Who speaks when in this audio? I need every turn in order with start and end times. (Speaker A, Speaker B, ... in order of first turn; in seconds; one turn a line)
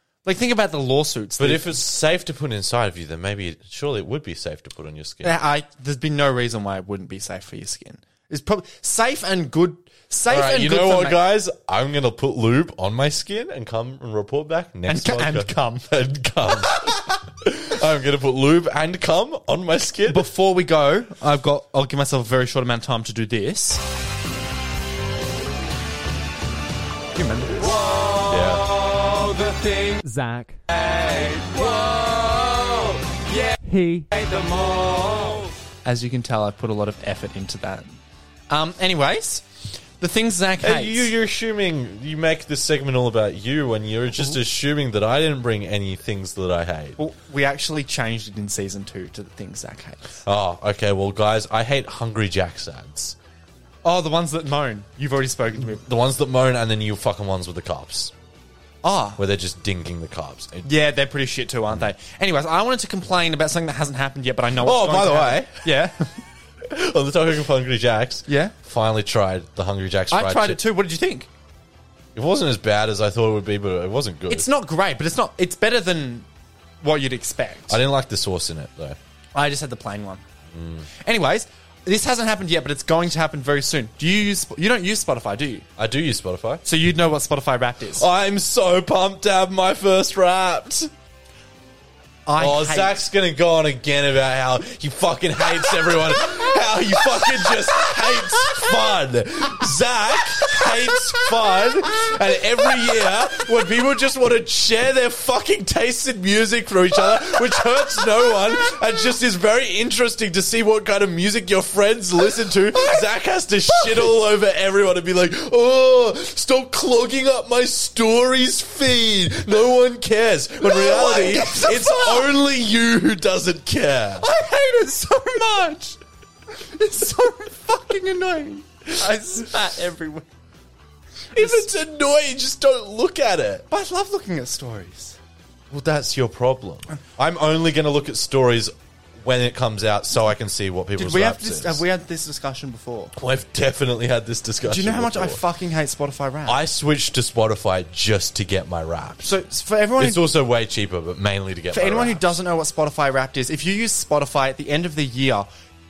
Speaker A: 0.2-1.7
Speaker B: 1.4-5.4
Speaker A: 5.2-11.2
Speaker B: 10.3-20.3
Speaker A: 14.9-15.9
Speaker A: 20.1-23.8
Speaker A: 27.1-37.9
Speaker B: 28.3-28.8
Speaker A: 38.5-41.1
Speaker B: 40.6-47.0
Speaker A: 47.0-50.1
Speaker B: 50.2-53.1
Speaker A: 53.8-55.8
Speaker B: 55.6-58.1
Speaker A: 58.8-59.2
Speaker B: 59.2-60.7
Speaker A: 60.6-66.2
Speaker B: 64.6-65.7
Speaker B: 66.6-70.6
Speaker A: 68.3-68.5
Speaker A: 70.1-71.3
Speaker B: 72.1-74.5
Speaker A: 74.3-76.3
Speaker A: 76.8-77.8
Speaker B: 77.7-79.0
Speaker A: 79.3-80.2
Speaker B: 80.5-80.9
Speaker A: 81.0-85.7
Speaker B: 85.8-86.6
Speaker A: 86.6-88.1
Speaker B: 88.0-90.9
Speaker A: 92.2-93.0
Speaker B: 92.4-124.3
Speaker A: 112.7-113.0
Speaker A: 120.6-122.3
Speaker A: 124.2-126.0
Speaker A: 126.6-130.2
Speaker B: 131.3-133.7
Speaker A: 131.4-131.6
Speaker A: 133.7-135.2
Speaker B: 135.7-141.8
Speaker A: 141.0-143.1
Speaker B: 143.1-145.4
Speaker A: 144.6-146.6
Speaker B: 146.4-149.3
Speaker A: 149.2-150.2
Speaker B: 150.0-152.3
Speaker A: 151.7-155.5